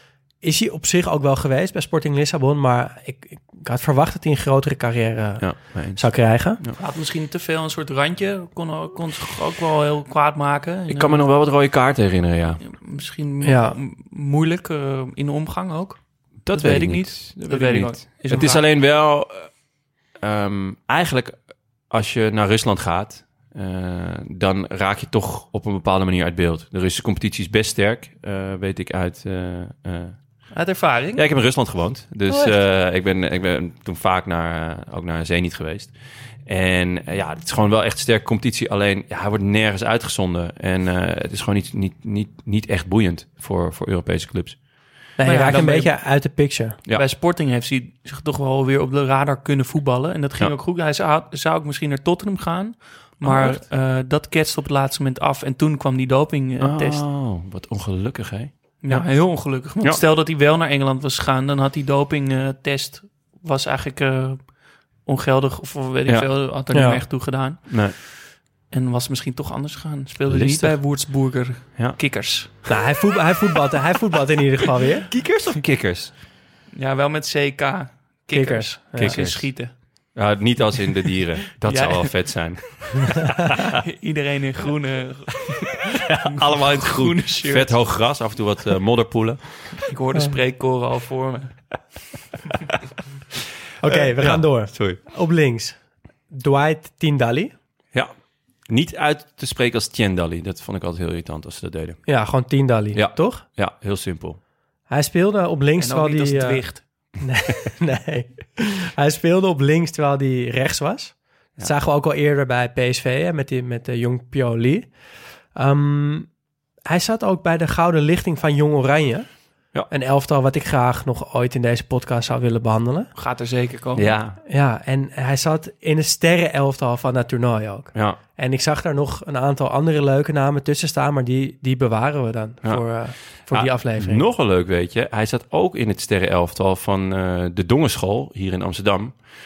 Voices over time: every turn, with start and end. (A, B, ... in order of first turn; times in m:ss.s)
0:00.4-0:06.6 A
0:05.4-0:06.1 B
0:06.8-0:11.2 C
0:10.9-0:12.6 B
0:12.6-0:16.0 C
0:13.4-0:13.8 A
0:16.4-0:19.5 B
0:16.5-0:18.6 C
0:20.2-0:21.4 B
0:21.9-0:30.2 B
0:30.5-0:31.2 C
0:31.2-0:35.9 B
0:32.3-0:32.6 C
0:36.5-0:44.6 B
0:45.2-0:46.8 A
0:45.2-0:45.9 C
0:46.9-0:57.0 C
0:53.2-0:53.6 B
0:56.6-0:59.0 B
0:58.8-1:04.5 C
1:05.0-1:07.9 C
1:06.7-1:07.0 A
1:07.7-1:08.0 B
1:08.7-1:12.6 C
1:10.3-1:10.8 B
1:12.7-1:15.1 A
1:15.1-1:16.1 B
1:16.7-1:19.7 C
1:18.3-1:19.2 A
1:19.0-1:19.5 B
1:20.2-1:23.8 B
1:21.6-1:22.2 C
1:23.8-1:27.7 C
1:25.9-1:29.7 B
1:29.8-1:31.6 C
1:33.8-1:35.8 A
1:33.9-1:35.0 B
1:36.3-1:37.5 A
1:38.7-1:42.0 B
1:42.1-1:43.4 A
1:42.9-1:44.4 B
1:44.9-1:46.6 A
1:45.8-1:46.8 C
1:47.2-1:54.9 A
1:55.5-1:56.3 A
1:56.9-1:59.3 A
1:59.9-2:03.1 A
2:03.2-2:04.1 C
2:04.0-2:04.4 B
2:04.5-2:14.3 A
2:13.5-2:19.2 B